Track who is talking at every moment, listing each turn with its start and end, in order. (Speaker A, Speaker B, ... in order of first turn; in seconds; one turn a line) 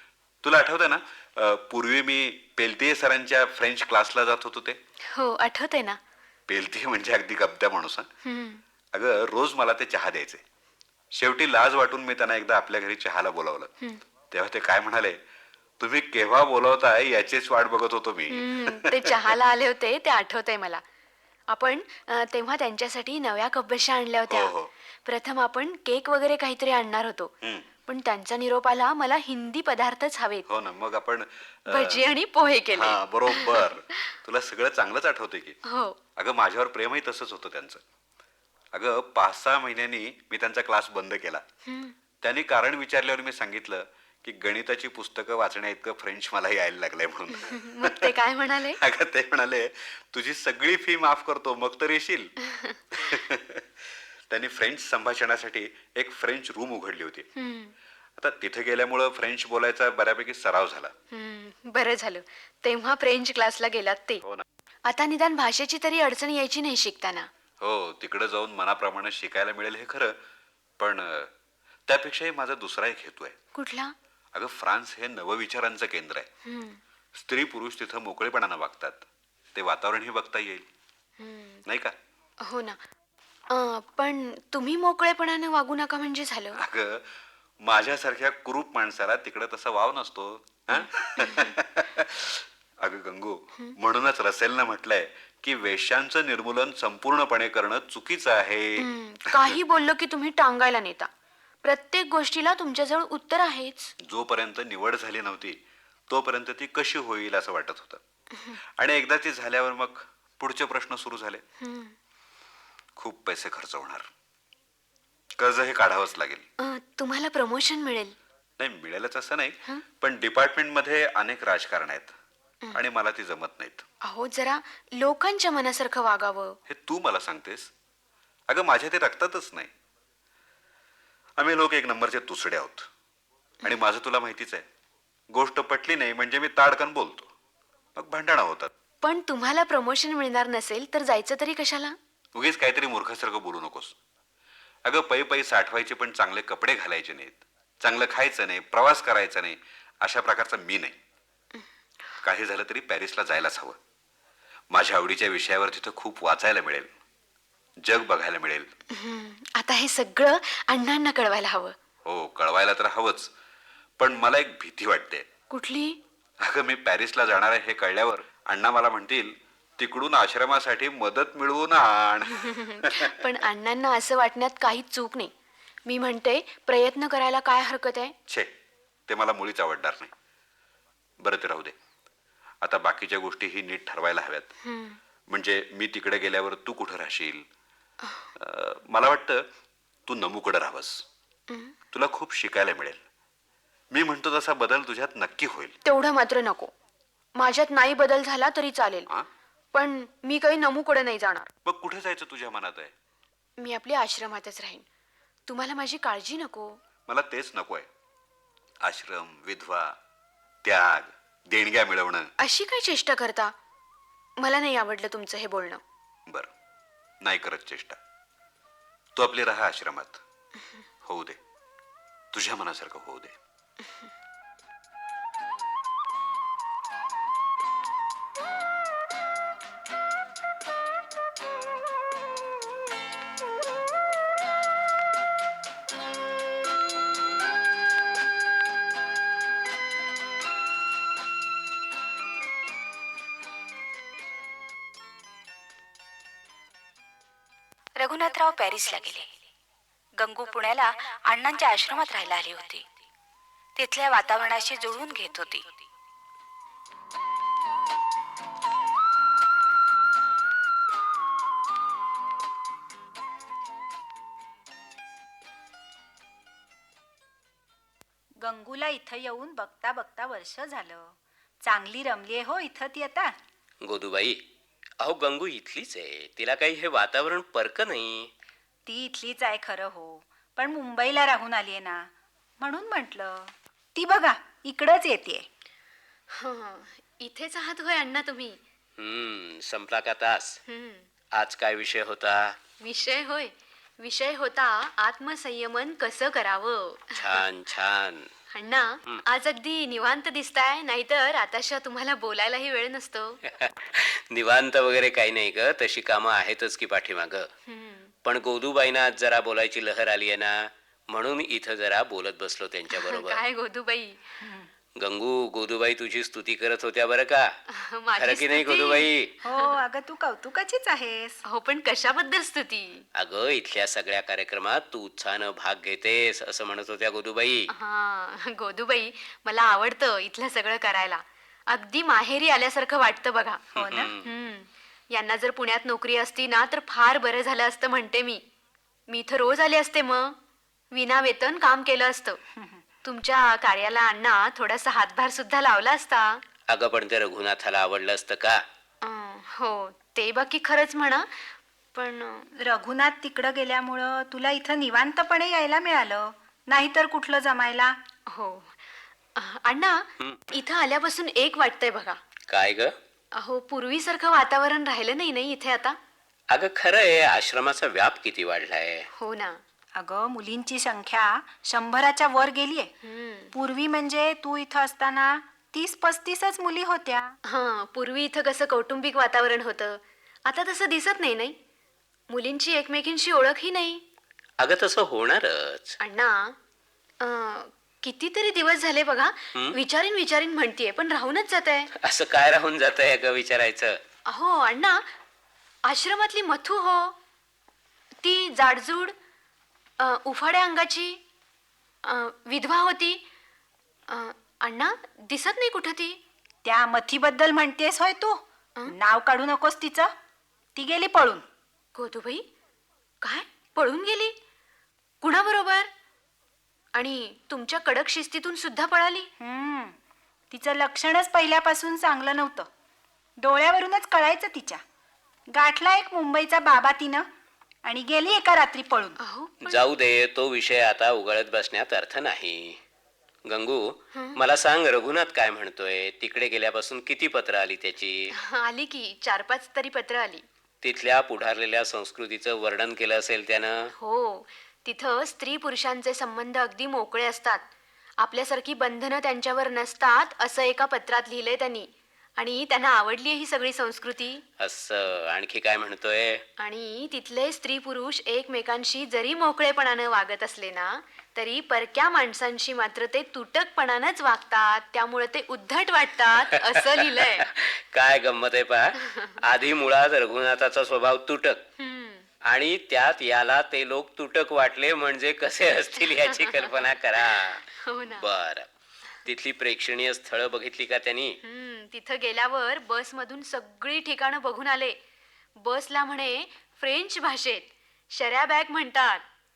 Speaker A: 0.4-4.8
Speaker B: 5.0-6.0
Speaker A: 6.5-8.1
Speaker B: 8.2-8.6
Speaker A: 8.9-10.4
Speaker A: 11.1-13.7
Speaker A: 14.3-15.2
Speaker A: 15.8-19.2
Speaker B: 18.3-20.8
Speaker B: 21.5-24.5
Speaker A: 24.3-24.7
Speaker B: 25.1-27.3
Speaker A: 27.4-27.7
Speaker B: 27.9-30.5
Speaker A: 30.5-32.1
Speaker B: 31.7-33.7
Speaker A: 32.7-35.6
Speaker B: 35.6-36.0
Speaker A: 36.2-37.8
Speaker A: 38.7-41.4
Speaker B: 41.7-42.0
Speaker A: 42.2-48.1
Speaker B: 47.4-48.8
Speaker A: 48.8-52.4
Speaker B: 52.5-52.8
Speaker A: 52.9-53.7
Speaker A: 54.3-57.3
Speaker B: 57.4-57.7
Speaker A: 58.2-60.9
Speaker B: 61.1-64.2
Speaker B: 64.9-67.3
Speaker A: 67.6-70.2
Speaker A: 70.8-71.3
Speaker A: 71.9-73.4
Speaker B: 73.5-73.9
Speaker A: 74.3-76.3
Speaker B: 76.5-76.8
Speaker A: 77.1-80.7
Speaker B: 81.2-81.6
Speaker A: 81.7-82.0
Speaker B: 82.4-82.8
Speaker B: 83.5-86.6
Speaker A: 86.5-99.6
Speaker B: 90.7-91.5
Speaker B: 98.8-101.1
Speaker B: 101.6-103.9
Speaker A: 104.0-108.0
Speaker A: 108.6-111.4
Speaker B: 111.6-112.0
Speaker A: 113.0-114.1
Speaker A: 115.4-116.5
Speaker B: 116.6-118.2
Speaker A: 118.6-122.2
Speaker A: 122.7-123.8
Speaker B: 124.0-126.6
Speaker A: 126.7-127.7
Speaker A: 128.5-129.7
Speaker A: 131.4-132.9
Speaker A: 133.6-134.7
Speaker A: 135.3-137.3
Speaker A: 137.9-138.7
Speaker B: 139.0-142.0
Speaker A: 142.3-144.0
Speaker A: 144.8-151.0
Speaker A: 152.2-153.8
Speaker A: 154.7-156.9
Speaker A: 157.8-158.7
Speaker B: 158.9-161.8
Speaker A: 162.1-163.3
Speaker A: 164.0-165.3
Speaker B: 165.5-166.0
Speaker A: 166.4-173.2
Speaker B: 172.4-175.3
Speaker B: 175.9-178.2
Speaker A: 178.3-178.6
Speaker A: 179.1-180.1
Speaker A: 181.2-181.8
Speaker A: 182.6-184.5
Speaker B: 184.6-185.0
Speaker A: 185.3-187.5
Speaker A: 188.3-189.5
Speaker A: 190.1-191.1
Speaker B: 191.5-191.8
Speaker A: 191.9-193.0
Speaker A: 193.9-195.8
Speaker B: 195.8-196.7
Speaker B: 197.4-199.1
Speaker B: 199.7-201.5
Speaker A: 201.7-202.9
Speaker B: 203.6-204.8
Speaker B: 205.5-206.8
Speaker A: 207.1-207.9
Speaker A: 208.8-210.0
Speaker A: 210.6-212.3
Speaker B: 212.4-213.5
Speaker B: 214.4-215.8
Speaker A: 217.2-218.0
Speaker A: 219.2-220.2
Speaker A: 221.0-221.4
Speaker A: 222.3-223.4
Speaker C: 248.0-249.3
Speaker C: 250.2-252.9
Speaker C: 253.8-255.7
Speaker D: 268.4-273.4
Speaker E: 273.8-274.4
Speaker E: 275.0-278.3
Speaker D: 278.9-285.5
Speaker B: 286.3-288.6
Speaker E: 289.0-290.6
Speaker B: 290.7-291.1
Speaker E: 291.4-292.6
Speaker B: 292.8-297.4
Speaker E: 297.1-298.3
Speaker B: 298.5-303.4
Speaker E: 303.5-307.5
Speaker B: 307.7-308.1
Speaker E: 308.2-313.4
Speaker B: 312.9-314.2
Speaker D: 314.4-314.7
Speaker E: 315.0-317.5
Speaker B: 317.7-319.1
Speaker E: 318.2-319.3
Speaker D: 319.4-321.4
Speaker B: 321.4-323.1
Speaker E: 323.1-327.7
Speaker B: 327.7-333.6
Speaker E: 333.7-334.3
Speaker D: 333.8-334.1
Speaker B: 334.2-338.4
Speaker B: 339.1-340.4
Speaker B: 340.9-342.4
Speaker D: 342.6-342.8
Speaker B: 343.0-346.4
Speaker E: 346.7-348.6
Speaker B: 349.0-352.5
Speaker D: 352.6-357.9
Speaker B: 358.3-358.8
Speaker B: 359.4-362.2
Speaker E: 362.5-362.9
Speaker B: 363.4-366.0
Speaker E: 366.5-369.1
Speaker B: 369.1-369.6
Speaker D: 370.0-372.9
Speaker B: 373.0-373.5
Speaker D: 373.5-377.4
Speaker B: 377.4-381.6
Speaker B: 382.3-384.0
Speaker E: 384.6-386.0
Speaker B: 386.0-386.6
Speaker B: 387.2-391.9
Speaker E: 391.9-394.0
Speaker B: 394.3-395.0
Speaker B: 395.9-397.1
Speaker B: 398.2-399.1
Speaker B: 400.0-401.2
Speaker B: 402.0-403.2
Speaker B: 404.1-406.2
Speaker D: 406.6-410.1
Speaker D: 410.8-411.4
Speaker B: 411.9-412.5
Speaker B: 413.2-414.4
Speaker B: 415.2-415.9
Speaker B: 416.9-419.3
Speaker D: 419.4-420.0
Speaker D: 420.5-422.7
Speaker D: 423.4-424.8
Speaker D: 425.5-427.3
Speaker D: 427.9-429.2
Speaker B: 429.2-429.9
Speaker E: 429.6-432.8
Speaker E: 433.4-438.3
Speaker B: 438.4-440.4
Speaker E: 440.8-443.9
Speaker B: 444.0-447.7
Speaker B: 448.2-454.4
Speaker E: 454.6-456.4
Speaker B: 456.6-467.5
Speaker E: 466.8-471.6
Speaker B: 469.0-469.4
Speaker B: 471.8-472.3
Speaker E: 472.5-477.6
Speaker B: 476.3-476.7
Speaker B: 477.8-478.3
Speaker E: 478.2-478.7
Speaker E: 479.2-481.4
Speaker B: 481.4-485.0
Speaker B: 485.6-489.2